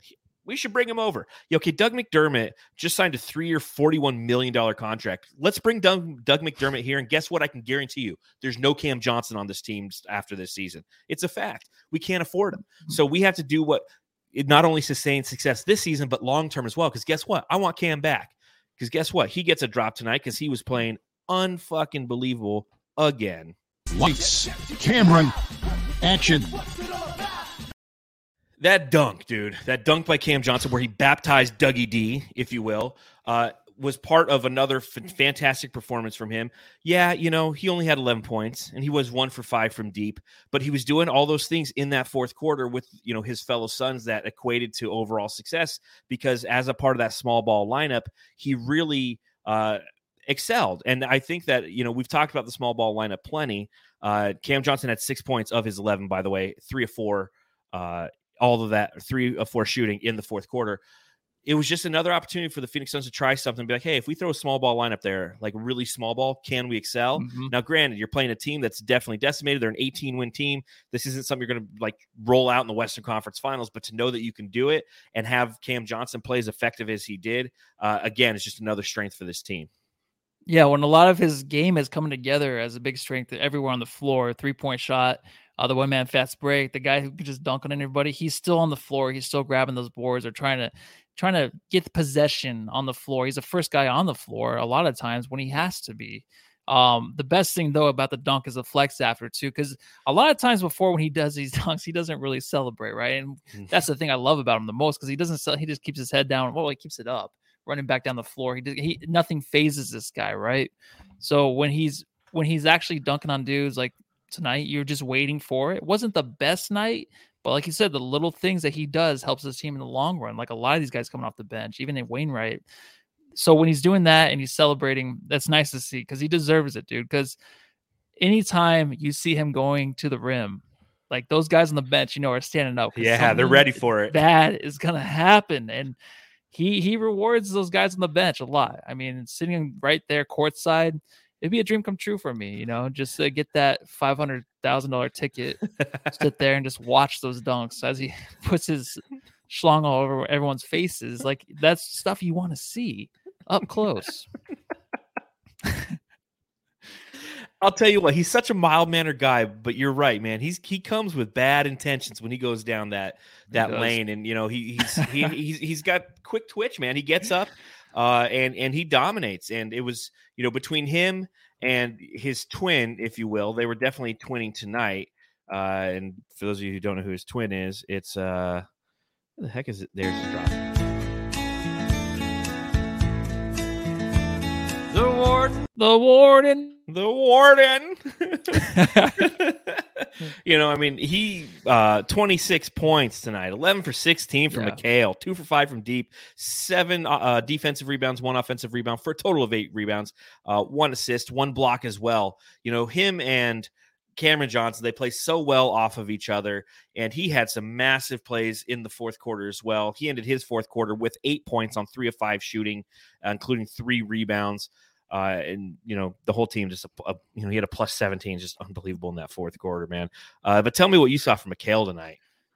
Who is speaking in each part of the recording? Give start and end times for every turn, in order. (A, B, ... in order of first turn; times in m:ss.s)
0:00.4-0:23.5 A
0:24.0-0:25.3 B
0:26.0-0:26.6 B
0:28.6-1:00.8 A
1:01.4-1:19.7 A
1:07.2-1:07.5 C
1:20.4-2:02.6 C
2:03.3-2:07.4 C
2:08.2-2:16.0 C
2:12.9-2:14.2 A
2:16.5-2:34.3 C
2:35.6-2:36.0 C
2:37.6-2:58.6 A
2:43.5-2:44.0 C
2:59.4-3:00.6 A
3:05.6-3:06.8 C
3:06.9-3:42.2 A
3:08.6-3:09.3 C
3:14.5-3:14.8 C